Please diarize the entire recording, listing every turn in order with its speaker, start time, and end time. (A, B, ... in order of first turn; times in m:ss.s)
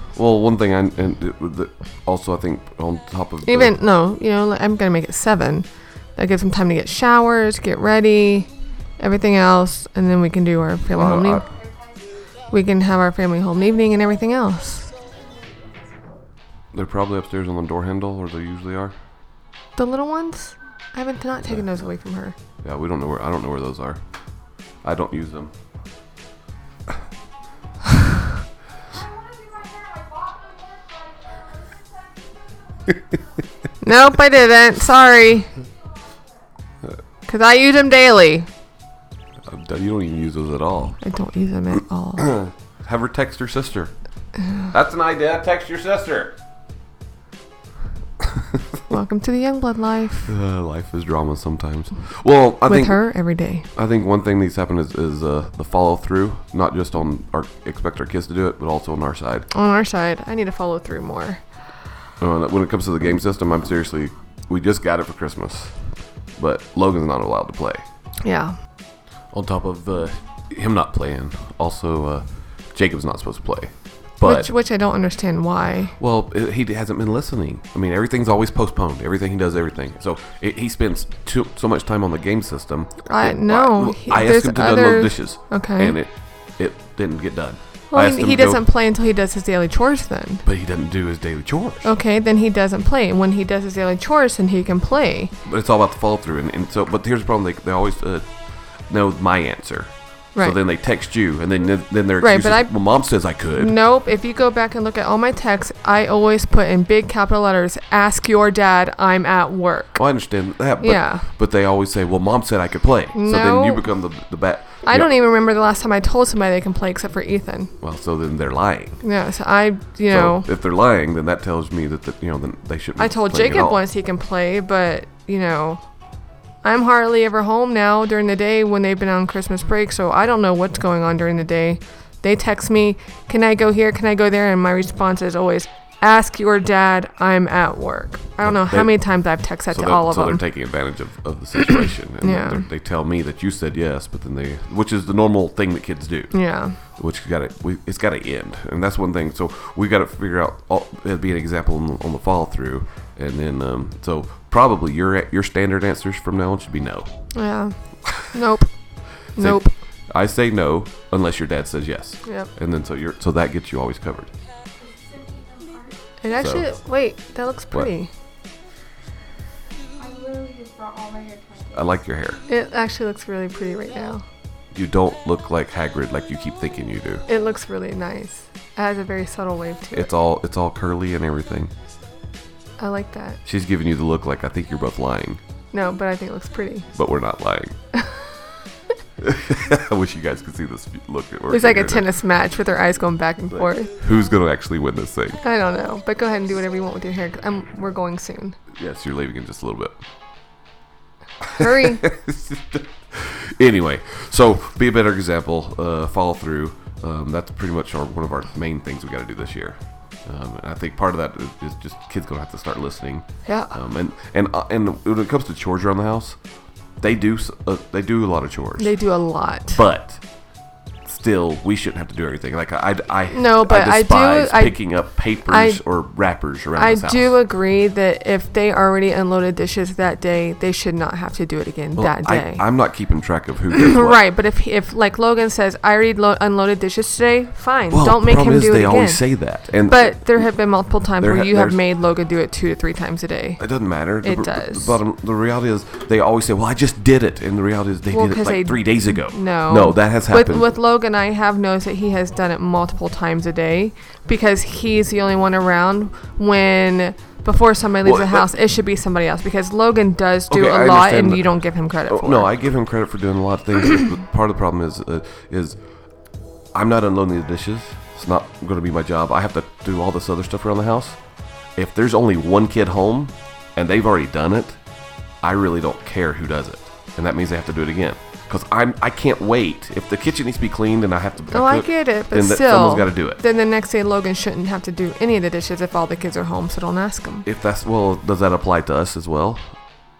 0:00.1-0:03.7 A
0:03.4-0:11.4 B
0:10.9-0:11.4 A
0:11.5-0:12.0 C
0:12.5-0:14.9 B
0:16.7-0:18.9 A
0:19.8-0:22.3 B
0:22.6-0:24.0 A
0:24.8-0:25.5 A
0:29.1-0:31.6 C
0:33.8-0:35.5 B
0:37.3-0:38.5 B
0:39.4-0:41.0 A
0:41.0-0:42.2 B
0:42.2-0:43.9 A
0:44.7-0:46.3 A
0:48.9-0:50.3 B
0:50.2-0:53.2 A
0:52.6-0:53.7 B
0:53.7-0:59.5 A
0:59.5-1:01.4 B
1:02.2-1:07.8 A
1:08.2-1:08.5 B
1:09.3-1:14.5 A
1:14.2-1:16.0 B
1:16.0-1:28.6 A
1:23.0-1:26.0 B
1:27.9-1:30.4 B
1:30.4-1:31.9 A
1:31.8-1:35.3 B
1:35.4-1:38.3 A
1:38.9-1:43.7 A
1:42.2-1:42.7 B
1:43.5-1:50.0 B
1:50.0-1:55.1 A
1:50.8-1:51.3 B
1:53.1-1:53.8 B
1:54.8-1:57.7 B
1:57.8-1:59.0 A
1:59.0-2:00.5 B
2:00.1-2:03.8 A
2:03.0-2:05.8 B
2:06.6-2:20.4 B
2:18.4-2:26.3 A
2:22.2-2:22.6 B
2:26.3-2:26.8 B
2:27.0-2:37.1 A
2:37.3-2:38.7 B
2:39.3-2:39.7 B
2:39.3-2:44.3 A
2:42.2-2:42.5 B
2:44.8-2:46.0 C
2:46.2-2:48.1 B
2:46.3-2:46.7 A
2:50.0-2:51.9 C
2:51.7-2:52.4 A
2:52.5-2:54.2 B
2:54.7-2:57.2 A
2:57.3-3:00.1 B
2:59.9-3:01.7 A
3:02.8-3:03.4 B
3:03.4-3:05.4 A
3:05.7-3:06.9 B
3:06.9-3:07.7 A
3:07.9-3:08.3 B
3:09.2-3:12.1 A
3:11.5-3:13.9 B
3:13.5-3:15.4 A
3:15.4-3:18.6 B
3:18.7-3:19.9 A
3:21.6-3:36.4 A
3:21.6-3:22.0 B
3:33.4-3:33.7 B
3:37.0-3:38.9 A
3:38.8-3:39.8 B
3:39.7-3:40.2 A
3:41.0-3:47.3 A
3:43.3-3:45.8 B
3:46.8-3:52.6 B
3:52.0-3:54.2 A
3:53.7-3:59.3 B
3:57.9-4:00.3 A
3:59.8-4:05.0 B
4:01.2-4:01.8 A
4:03.6-4:10.7 A
4:08.1-4:22.5 B
4:18.0-4:18.5 A
4:20.5-4:21.5 A
4:22.1-4:25.8 A
4:26.7-4:31.2 A
4:31.8-4:34.8 A
4:35.4-4:43.4 A
4:41.5-4:47.4 B
4:47.4-4:49.7 A